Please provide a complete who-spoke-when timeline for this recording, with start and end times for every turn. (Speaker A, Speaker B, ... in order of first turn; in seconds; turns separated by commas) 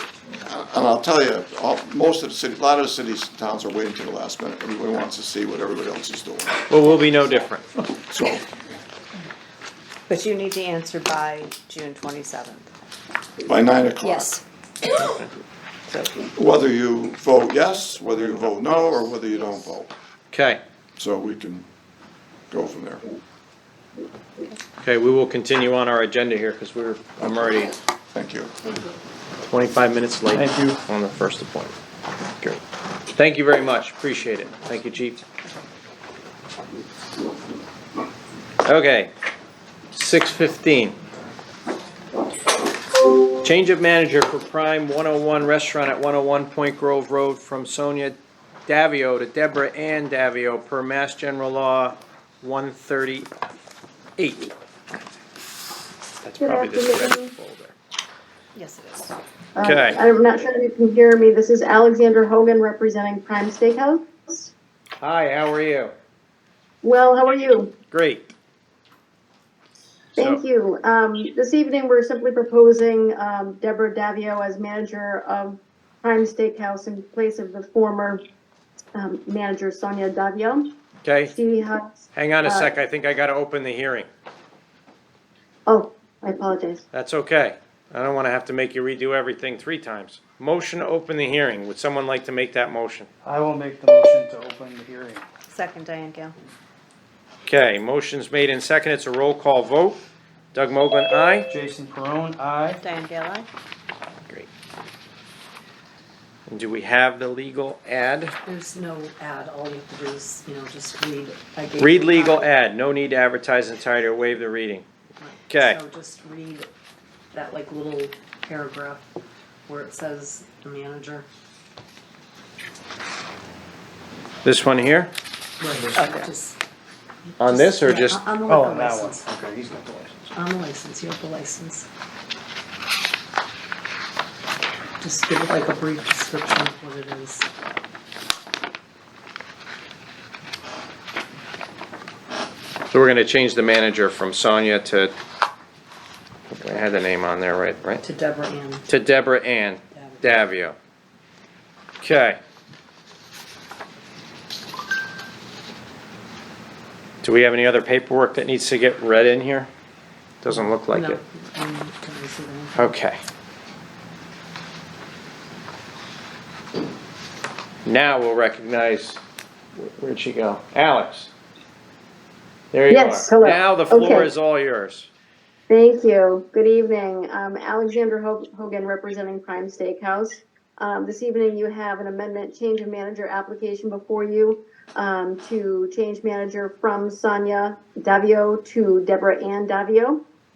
Speaker A: 0.4-6.6, Speaker B: 6.7-7.7, Speaker A: 8.0-8.4, Speaker C: 10.1-12.7, Speaker D: 10.2-12.2, Speaker A: 13.4-14.3, Speaker C: 14.0-14.4, Speaker A: 16.2-19.9, Speaker B: 20.3-20.6, Speaker A: 21.0-21.7, Speaker A: 22.5-23.0, Speaker B: 24.8-27.8, Speaker A: 28.1-28.5, Speaker B: 29.4-31.7, Speaker E: 30.3-30.8, Speaker B: 33.1-35.2, Speaker B: 38.6-39.1, Speaker B: 39.9-41.0, Speaker B: 43.4-53.3, Speaker B: 54.2-54.5, Speaker B: 56.2-57.8, Speaker F: 56.4-57.3, Speaker C: 58.6-59.0, Speaker D: 58.6-59.1, Speaker F: 59.5-64.5, Speaker B: 59.6-60.0, Speaker B: 65.0-65.9, Speaker F: 66.8-67.7, Speaker B: 67.9-68.3, Speaker B: 70.2-70.4, Speaker F: 70.2-78.2, Speaker F: 79.0-80.7, Speaker B: 81.0-81.3, Speaker F: 81.3-82.7, Speaker B: 82.1-84.1, Speaker F: 85.7-86.8, Speaker B: 86.9-93.1, Speaker E: 93.2-95.3, Speaker C: 95.5-96.3, Speaker B: 97.5-100.0, Speaker B: 100.5-101.5, Speaker E: 101.5-102.8, Speaker C: 102.8-103.5, Speaker B: 106.5-108.3, Speaker D: 108.5-112.2, Speaker C: 111.5-112.4, Speaker B: 111.8-114.8, Speaker D: 115.2-116.7, Speaker B: 115.5-115.8, Speaker D: 117.3-119.1, Speaker D: 119.7-121.3, Speaker B: 124.4-125.1, Speaker C: 125.6-126.6, Speaker E: 125.7-126.1, Speaker D: 126.0-126.5, Speaker B: 127.4-128.2, Speaker D: 127.5-129.2, Speaker C: 127.5-128.1, Speaker E: 128.4-130.3, Speaker C: 128.6-128.9, Speaker C: 130.4-130.7, Speaker D: 130.4-131.8, Speaker D: 135.0-137.5, Speaker B: 142.9-145.1, Speaker B: 146.5-148.0, Speaker D: 148.1-148.6, Speaker C: 148.1-148.9, Speaker B: 148.9-150.8, Speaker B: 152.0-152.4, Speaker B: 157.2-159.7, Speaker B: 160.4-161.2, Speaker D: 160.5-162.9, Speaker C: 162.2-162.7, Speaker B: 162.8-163.2, Speaker B: 167.9-169.2, Speaker B: 169.8-171.3, Speaker B: 172.7-175.1, Speaker F: 172.9-174.3, Speaker F: 175.7-190.2